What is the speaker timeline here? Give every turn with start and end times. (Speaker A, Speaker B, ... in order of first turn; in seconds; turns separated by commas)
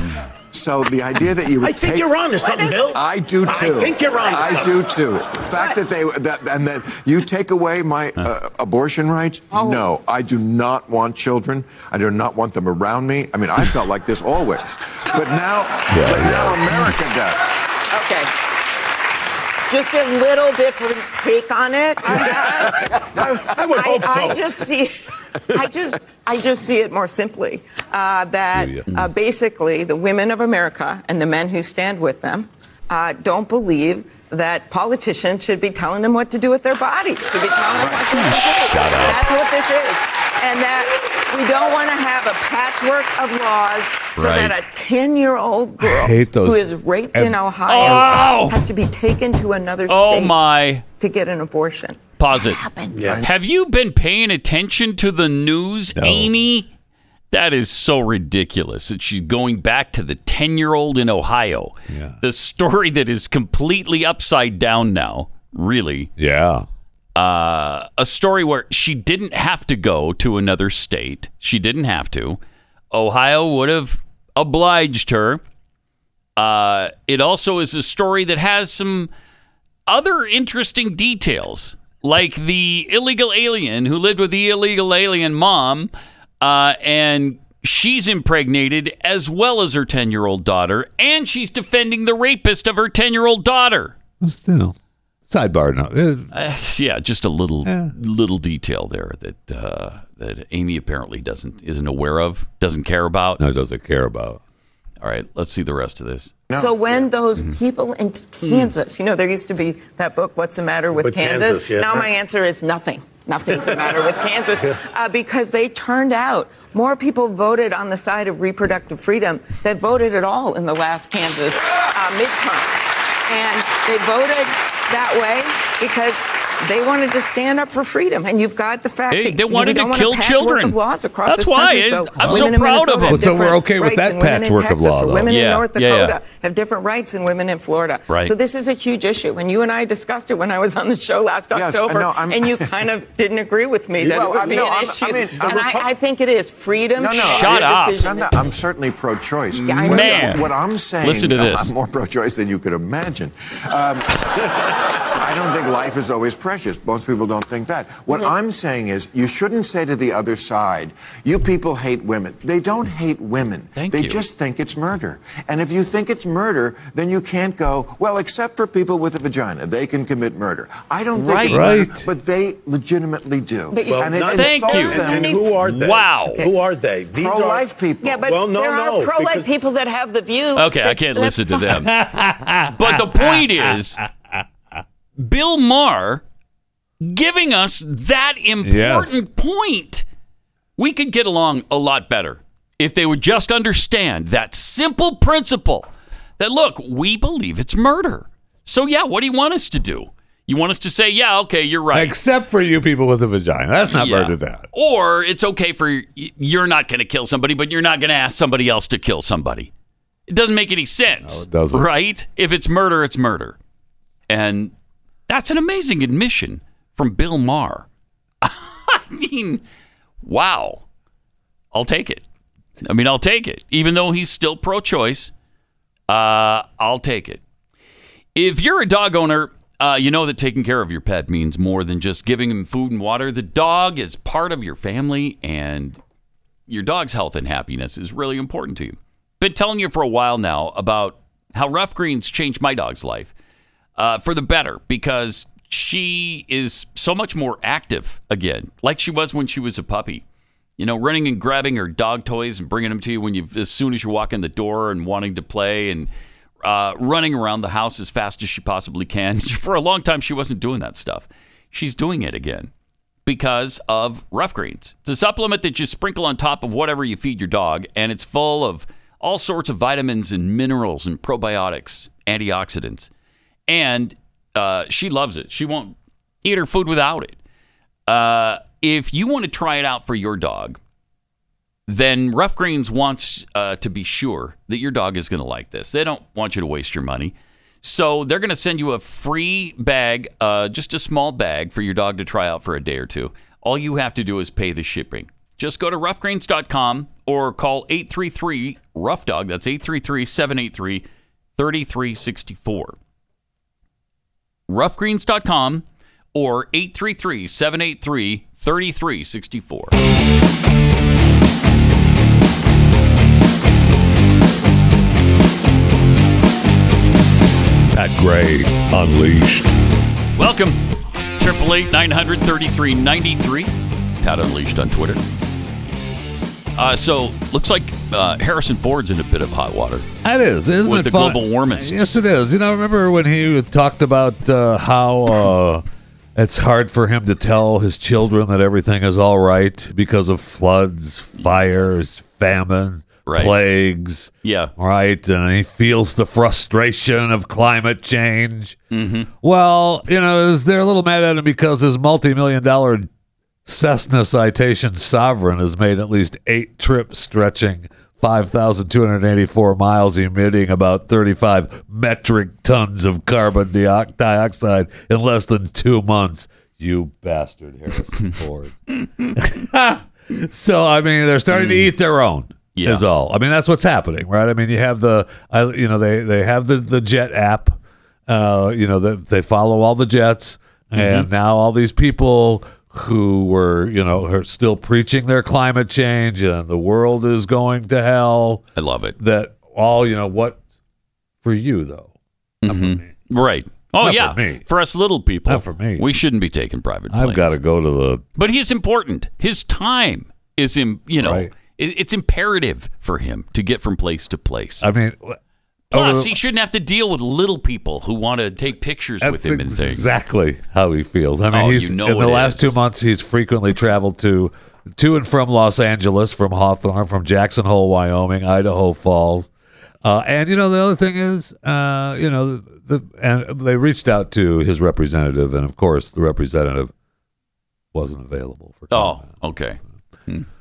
Speaker A: 0.5-2.2, Speaker B: 1.6-4.9, Speaker A: 2.9-17.4, Speaker C: 5.5-5.8, Speaker C: 9.5-9.9, Speaker D: 15.9-16.8, Speaker C: 17.9-18.3, Speaker C: 19.7-25.0, Speaker B: 23.4-24.6, Speaker C: 25.5-50.4, Speaker D: 28.5-28.9, Speaker E: 38.1-39.2, Speaker E: 44.2-44.5, Speaker D: 45.8-47.4, Speaker E: 47.6-48.6, Speaker E: 49.9-50.8, Speaker C: 50.9-53.2, Speaker E: 52.2-52.6, Speaker B: 52.9-53.2, Speaker E: 53.2-56.7, Speaker D: 55.9-56.3, Speaker E: 57.3-66.1, Speaker D: 61.9-62.2, Speaker D: 66.2-66.7, Speaker E: 67.1-72.4, Speaker E: 72.9-75.4, Speaker E: 76.3-79.1, Speaker E: 79.9-94.0, Speaker D: 94.2-94.7, Speaker D: 95.3-96.3, Speaker E: 96.3-103.4, Speaker D: 97.6-97.9, Speaker D: 103.4-104.4, Speaker E: 105.0-106.3, Speaker A: 106.5-107.0, Speaker C: 106.5-148.5, Speaker E: 108.4-108.7, Speaker B: 110.9-112.0, Speaker E: 129.1-133.3, Speaker D: 132.2-132.5, Speaker D: 133.1-135.3, Speaker E: 135.3-136.2, Speaker E: 138.1-138.3, Speaker A: 141.5-142.8, Speaker A: 144.0-145.8, Speaker B: 144.0-144.7, Speaker B: 145.4-145.9, Speaker A: 146.9-154.3, Speaker E: 147.2-148.1, Speaker E: 149.5-151.7, Speaker C: 149.6-150.5, Speaker A: 155.1-175.4, Speaker E: 163.8-164.2, Speaker E: 171.1-171.9, Speaker D: 171.5-172.1, Speaker C: 173.7-175.6, Speaker B: 173.9-177.7, Speaker E: 174.3-175.0, Speaker E: 175.7-176.4, Speaker A: 177.2-178.2, Speaker C: 178.0-181.8, Speaker B: 178.2-179.5, Speaker E: 180.5-181.9, Speaker D: 181.8-184.4, Speaker E: 182.8-184.0, Speaker E: 185.2-186.2, Speaker E: 187.0-190.0, Speaker D: 188.6-189.2, Speaker E: 190.8-195.9, Speaker E: 196.4-202.1, Speaker D: 201.9-204.7, Speaker E: 203.9-209.7, Speaker E: 210.3-213.6, Speaker D: 211.2-211.8, Speaker E: 214.3-214.7, Speaker E: 215.3-217.9, Speaker E: 218.4-219.6, Speaker E: 220.2-220.8, Speaker E: 221.7-222.2, Speaker E: 222.8-225.3, Speaker E: 226.1-227.4, Speaker E: 228.3-236.0, Speaker E: 236.7-243.3, Speaker E: 244.0-250.2, Speaker E: 250.8-256.1, Speaker E: 256.6-262.7, Speaker E: 263.2-273.1, Speaker E: 273.7-277.4, Speaker E: 278.1-280.8, Speaker E: 281.9-301.0, Speaker E: 301.6-303.0, Speaker E: 304.7-309.9, Speaker D: 317.9-319.7, Speaker E: 320.4-325.2, Speaker E: 326.8-330.1, Speaker D: 330.2-335.8, Speaker E: 330.8-332.2, Speaker D: 336.4-348.8, Speaker E: 341.4-341.7, Speaker E: 343.2-343.6, Speaker E: 344.4-344.7, Speaker E: 348.9-349.3, Speaker D: 349.4-353.1, Speaker D: 353.6-368.8, Speaker D: 369.3-388.6, Speaker E: 371.5-371.9, Speaker E: 372.7-373.0, Speaker E: 380.9-381.3, Speaker E: 388.8-389.2, Speaker D: 389.2-390.6, Speaker D: 391.4-392.1, Speaker E: 392.6-397.6, Speaker D: 392.6-393.1, Speaker D: 394.0-394.6, Speaker D: 395.5-396.1, Speaker D: 397.1-398.2, Speaker E: 398.4-404.9, Speaker D: 401.2-401.5, Speaker D: 404.8-405.4, Speaker D: 405.9-406.4, Speaker E: 405.9-410.1, Speaker D: 409.2-419.5, Speaker E: 411.5-412.7, Speaker D: 420.0-426.9, Speaker D: 427.9-429.3, Speaker E: 428.9-430.5